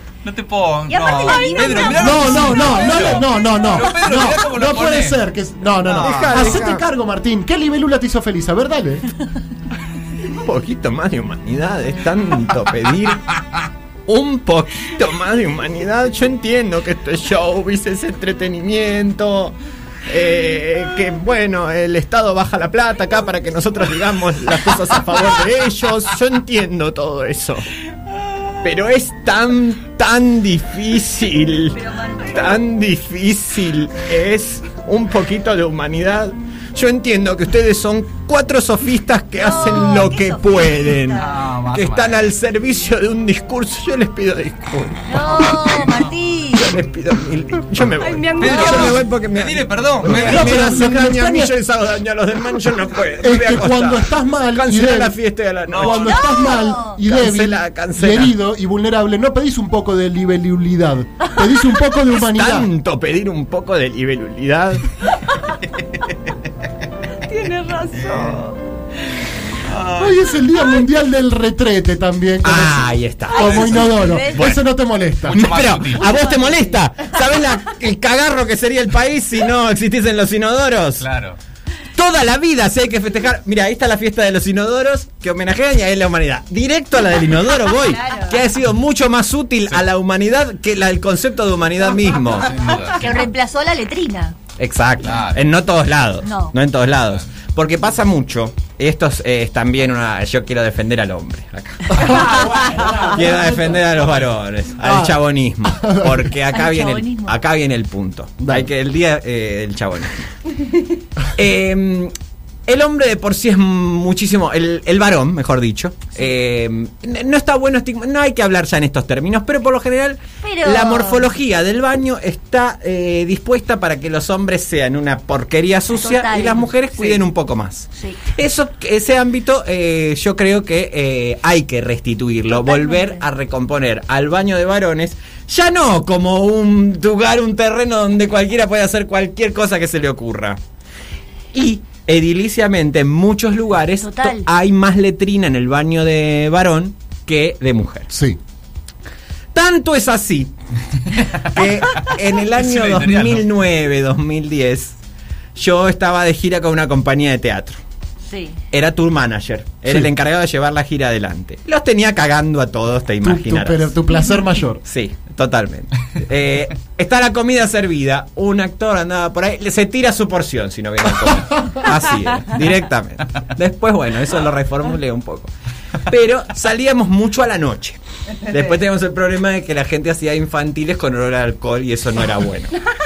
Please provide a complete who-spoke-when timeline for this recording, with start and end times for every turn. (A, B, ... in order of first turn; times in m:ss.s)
0:00.2-0:05.2 A
0:00.9-0:03.6 B
0:01.3-0:01.8 C
0:02.0-0:09.1 D
0:05.8-0:06.6 A
0:05.9-0:06.8 E
0:10.3-0:13.4 E
0:14.1-0:27.7 E
0:28.6-0:56.2 E
0:31.8-0:32.6 B
0:39.4-0:41.4 B
0:41.1-0:42.2 A
0:45.1-0:46.8 B
0:48.0-0:49.0 C
0:48.4-0:50.8 A
0:50.1-0:51.5 D
0:53.2-0:55.2 D
0:55.7-0:56.1 A
0:55.8-1:02.7 D
0:55.9-0:57.0 B
0:57.0-0:58.4 E
1:02.1-1:04.9 E
1:07.3-1:08.6 C
1:09.7-1:10.1 A
1:10.0-1:15.4 D
1:12.4-1:14.6 E
1:13.3-1:14.5 B
1:13.4-1:13.8 A
1:15.2-1:16.2 A
1:15.3-1:21.0 E
1:16.0-1:16.8 B
1:21.0-1:21.4 A
1:21.9-1:32.6 E
1:27.8-1:28.4 B
1:32.4-1:33.3 A
1:32.9-1:34.4 B
1:34.6-1:50.3 E
1:35.0-1:35.4 A
1:36.2-1:36.5 B
1:41.9-1:43.9 D
1:44.8-1:46.3 D
1:46.5-1:47.4 B
1:48.4-1:48.7 D
1:51.3-1:52.1 E
1:52.7-2:20.6 E
2:00.4-2:01.3 B
2:06.0-2:07.2 B
2:08.0-2:08.3 B
2:12.5-2:13.2 B
2:21.5-2:28.1 E
2:24.0-2:24.5 B
2:28.1-2:28.4 D
2:29.5-2:30.5 E
2:31.2-2:33.4 A
2:31.4-2:35.0 E
2:35.6-2:37.8 E
2:38.2-2:38.6 B
2:38.7-2:43.9 E
2:43.2-2:44.8 D
2:44.8-3:02.8 E